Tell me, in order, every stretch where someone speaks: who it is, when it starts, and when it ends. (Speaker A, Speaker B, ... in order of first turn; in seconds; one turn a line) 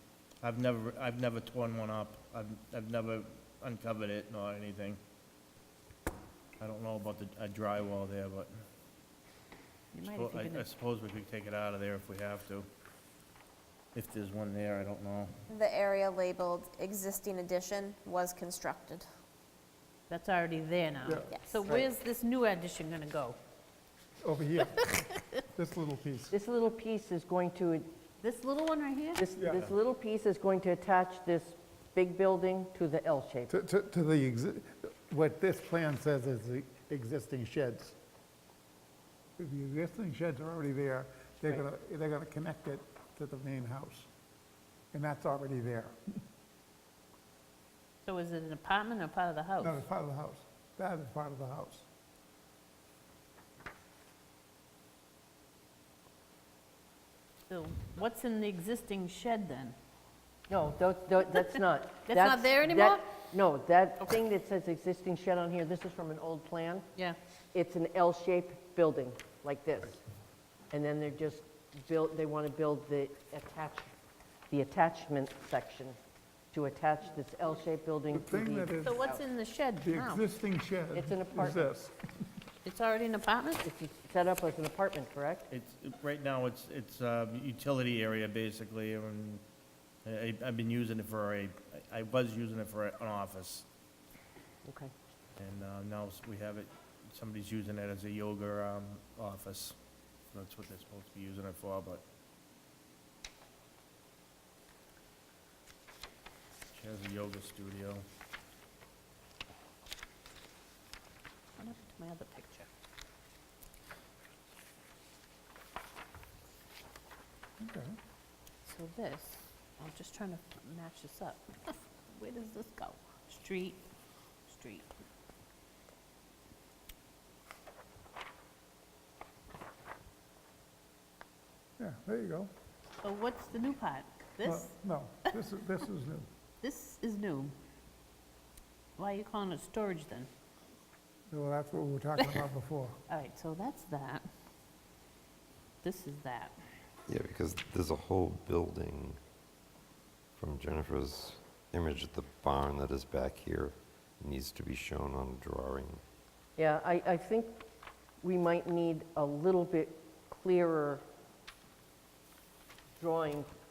Speaker A: 0.4-5.0
Speaker A: 6.6-8.5
Speaker B: 9.9-10.7
Speaker A: 10.1-12.7
Speaker A: 13.9-15.3
Speaker C: 15.5-19.1
Speaker B: 20.1-23.4
Speaker C: 21.3-21.6
Speaker D: 24.2-26.3
Speaker E: 26.3-27.9
Speaker B: 28.2-29.2
Speaker E: 29.2-33.5
Speaker D: 29.4-29.7
Speaker D: 33.5-38.0
Speaker D: 39.4-44.1
Speaker D: 44.9-46.0
Speaker B: 48.0-49.8
Speaker D: 49.6-51.9
Speaker B: 57.5-59.8
Speaker E: 60.5-66.8
Speaker B: 62.0-63.1
Speaker E: 67.5-70.0
Speaker E: 70.7-73.9
Speaker E: 74.5-76.0
Speaker E: 76.5-79.2
Speaker D: 78.1-79.1
Speaker B: 78.8-80.2
Speaker D: 79.8-81.9
Speaker E: 80.9-81.7
Speaker B: 82.6-83.7
Speaker E: 83.6-85.5
Speaker A: 85.5-89.4
Speaker A: 90.0-93.7
Speaker E: 94.7-94.9
Speaker A: 95.4-99.8
Speaker A: 100.3-102.0
Speaker A: 106.7-108.0
Speaker B: 111.6-112.7
Speaker D: 117.6-117.9
Speaker B: 118.6-123.8
Speaker B: 124.5-124.9
Speaker D: 131.8-132.5
Speaker B: 133.0-134.7
Speaker D: 134.4-136.3
Speaker B: 136.6-137.5
Speaker B: 139.0-140.3
Speaker D: 141.3-142.9
Speaker B: 143.1-144.2
Speaker B: 145.8-146.5
Speaker F: 147.1-149.2
Speaker F: 150.4-156.0
Speaker E: 156.6-157.6
Speaker E: 158.2-161.0
Speaker E: 163.0-163.5